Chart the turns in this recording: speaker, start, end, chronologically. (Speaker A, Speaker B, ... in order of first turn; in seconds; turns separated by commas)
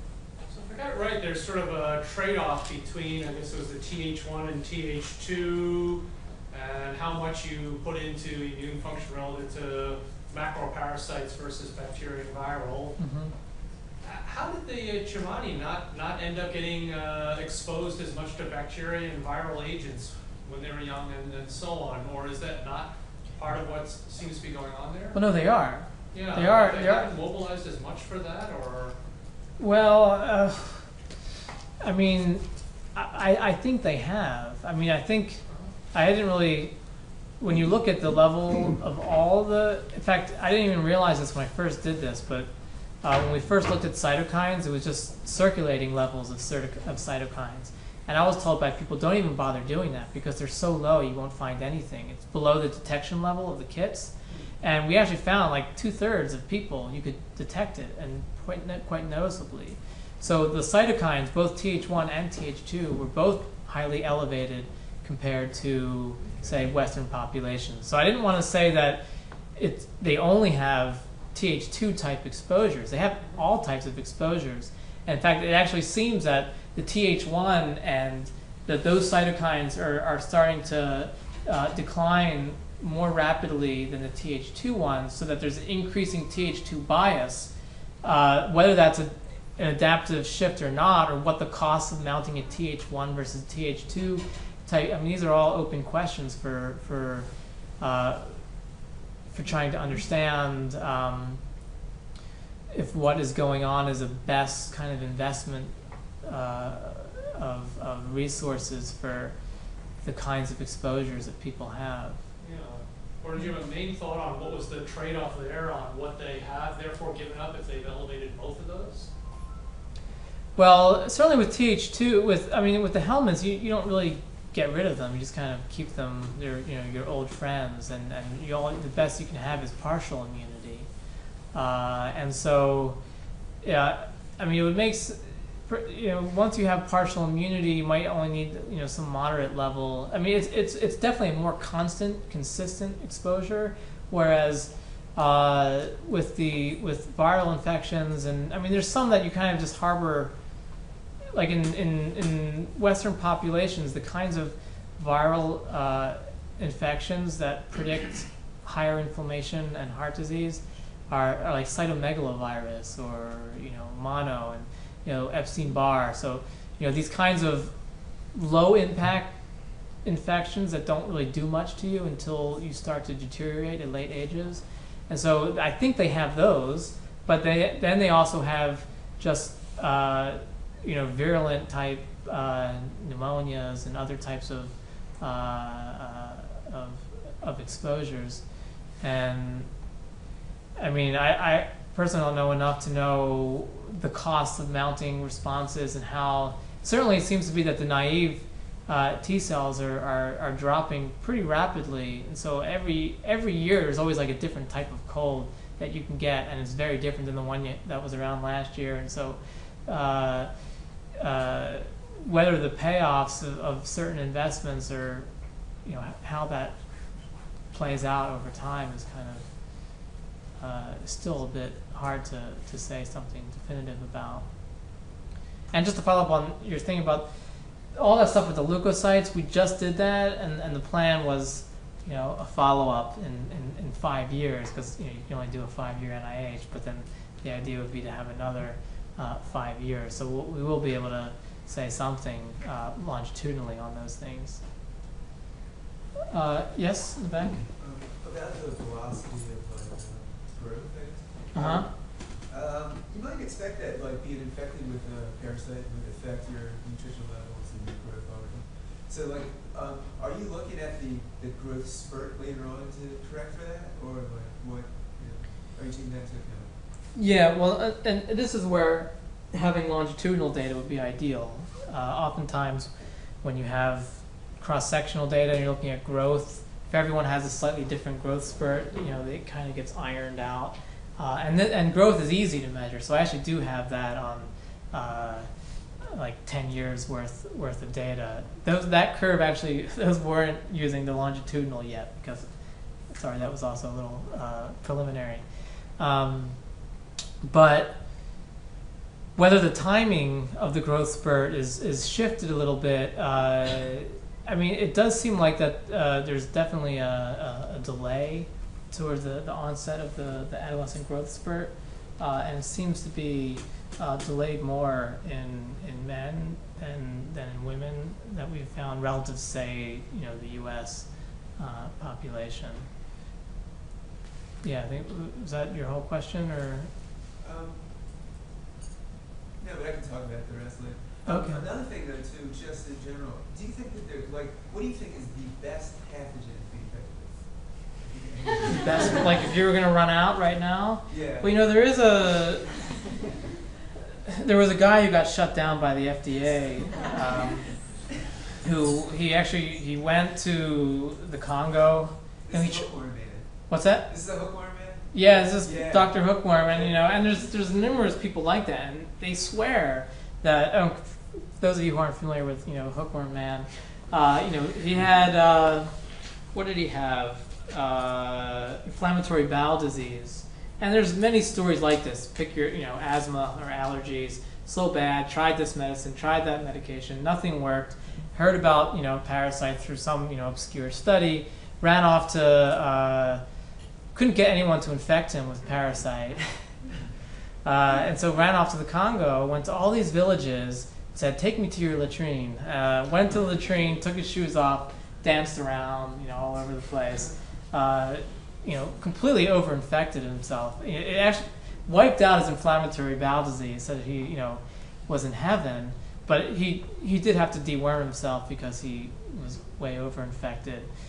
Speaker A: 0.5-13.0, Speaker B: 13.0-13.3, Speaker A: 14.0-25.2, Speaker B: 25.1-27.1, Speaker A: 26.1-28.9, Speaker B: 29.6-30.9, Speaker B: 31.8-35.4, Speaker B: 35.9-36.7, Speaker B: 37.4-42.5, Speaker B: 43.0-69.0, Speaker B: 69.6-87.5, Speaker B: 88.0-97.3, Speaker B: 97.8-98.4, Speaker B: 99.3-101.4, Speaker B: 102.7-105.7, Speaker B: 106.2-109.3, Speaker B: 110.0-112.2, Speaker A: 112.4-119.1, Speaker B: 120.6-130.9, Speaker B: 131.5-133.0, Speaker B: 133.6-150.3, Speaker B: 151.3-167.7, Speaker B: 168.3-169.3, Speaker B: 170.0-188.4, Speaker B: 189.0-189.7, Speaker B: 190.8-210.5, Speaker B: 211.2-215.3, Speaker B: 215.8-216.8, Speaker B: 217.7-219.5, Speaker B: 220.6-224.4, Speaker B: 225.7-227.3, Speaker B: 228.0-244.6, Speaker B: 246.3-247.6, Speaker C: 247.8-266.7, Speaker B: 251.5-251.9, Speaker B: 267.2-272.9, Speaker B: 273.4-285.5, Speaker B: 286.1-292.5, Speaker B: 293.1-295.4, Speaker B: 296.0-296.6, Speaker B: 297.4-298.0, Speaker B: 299.4-322.9, Speaker B: 324.6-326.9, Speaker C: 327.4-328.2, Speaker C: 329.6-339.4, Speaker B: 331.3-331.6, Speaker B: 338.7-342.7, Speaker C: 341.1-341.6, Speaker B: 344.3-347.7, Speaker B: 348.6-352.9, Speaker C: 352.5-357.1, Speaker B: 353.7-354.1, Speaker B: 355.1-365.9, Speaker B: 366.5-383.4, Speaker B: 384.1-386.7, Speaker B: 387.6-410.9